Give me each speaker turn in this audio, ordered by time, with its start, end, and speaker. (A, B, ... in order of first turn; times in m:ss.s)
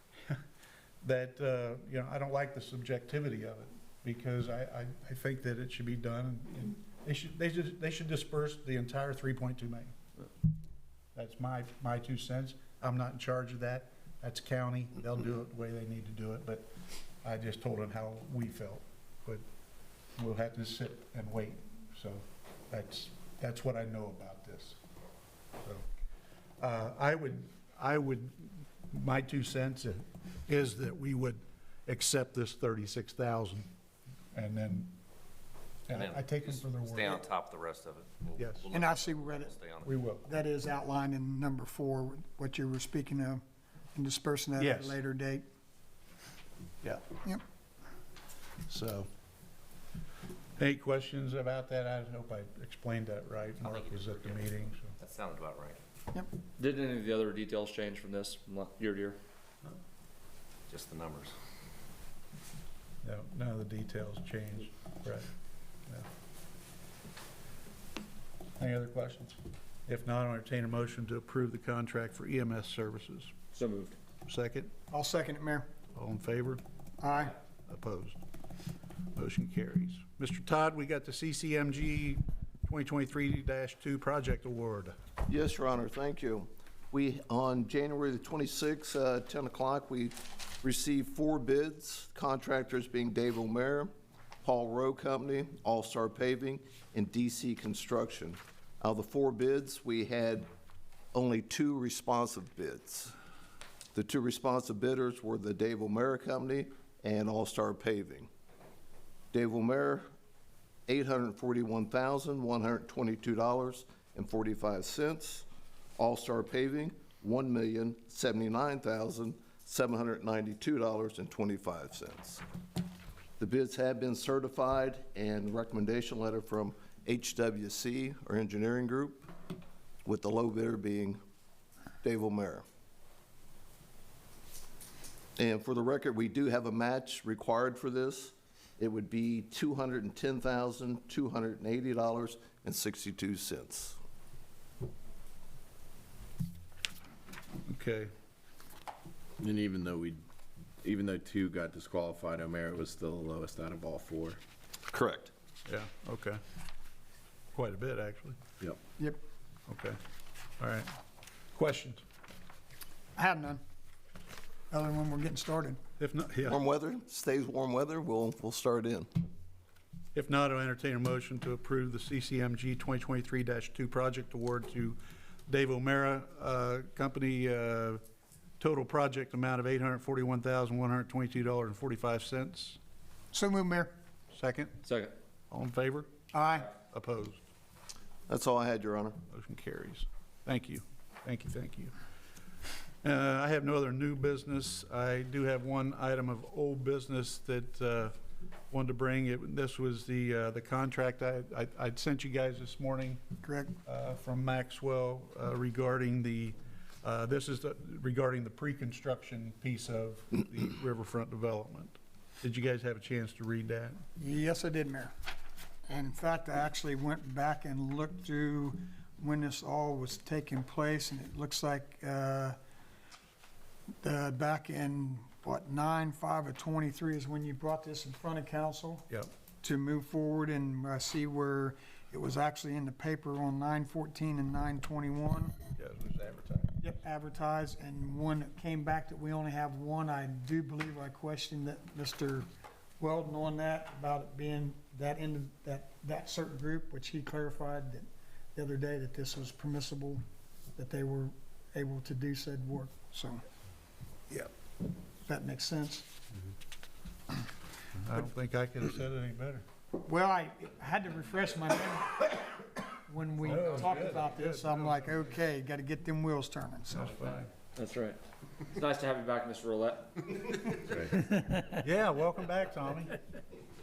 0:01.0-0:09.9 A
0:11.1-0:16.7 A
0:17.2-0:19.4 A
0:20.2-0:24.8 A
0:26.6-0:33.7 A
0:34.3-0:34.9 A
0:35.9-0:37.2 A
0:35.9-0:39.9 B
0:38.4-0:38.6 A
0:38.7-0:39.5 C
0:39.8-0:40.3 A
0:40.2-0:43.4 C
0:43.9-0:45.4 C
0:44.6-0:45.0 A
0:46.8-0:47.1 A
0:48.7-0:49.1 A
0:50.6-0:54.9 A
0:53.6-0:55.8 B
0:56.6-0:59.2 D
1:00.7-1:01.3 B
1:03.0-1:05.3 A
1:08.6-1:13.4 A
1:13.5-1:14.0 D
1:14.3-1:14.7 A
1:14.9-1:15.7 C
1:15.9-1:16.6 A
1:17.0-1:17.3 C
1:17.7-1:18.2 A
1:19.1-1:24.9 A
1:25.3-1:33.9 E
1:34.4-1:40.5 E
1:41.1-1:43.1 E
1:43.9-1:48.3 E
1:49.3-1:50.0 E
1:50.9-1:55.4 E
1:56.0-2:02.4 E
2:03.4-2:09.3 E
2:10.0-2:11.2 E
2:12.0-2:12.6 E
2:15.4-2:24.0 E
2:27.6-2:28.1 A
2:29.4-2:30.2 F
2:30.8-2:34.4 F
2:34.9-2:35.3 E
2:35.6-2:36.4 A
2:37.5-2:38.4 A
2:39.7-2:40.0 A
2:40.6-2:40.9 A
2:41.5-2:42.0 A
2:43.2-2:43.6 C
2:44.7-2:45.8 C
2:46.0-2:46.6 A
2:46.4-2:49.1 E
2:50.1-2:58.0 A
2:58.6-3:02.8 A
3:03.3-3:03.9 C
3:04.3-3:04.8 A
3:04.8-3:05.1 D
3:05.5-3:06.1 A
3:06.3-3:06.7 C
3:06.7-3:07.4 A
3:08.3-3:09.2 E
3:09.3-3:11.9 A
3:13.0-3:18.1 A
3:18.7-3:23.2 A
3:23.4-3:23.7 C
3:23.8-3:34.0 A
3:34.2-3:35.1 C
3:35.9-3:42.6 C
3:44.0-3:49.1 C
3:49.6-3:55.6 C
3:55.8-3:56.8 A
3:56.8-4:02.5 C
4:03.0-4:10.2 C
4:10.8-4:13.4 C
4:15.2-4:16.1 C
4:17.9-4:19.6 A
4:20.0-4:27.3 C
4:23.4-4:25.2 A
4:26.9-4:27.5 A
4:27.7-4:30.8 D
4:31.7-4:33.2 A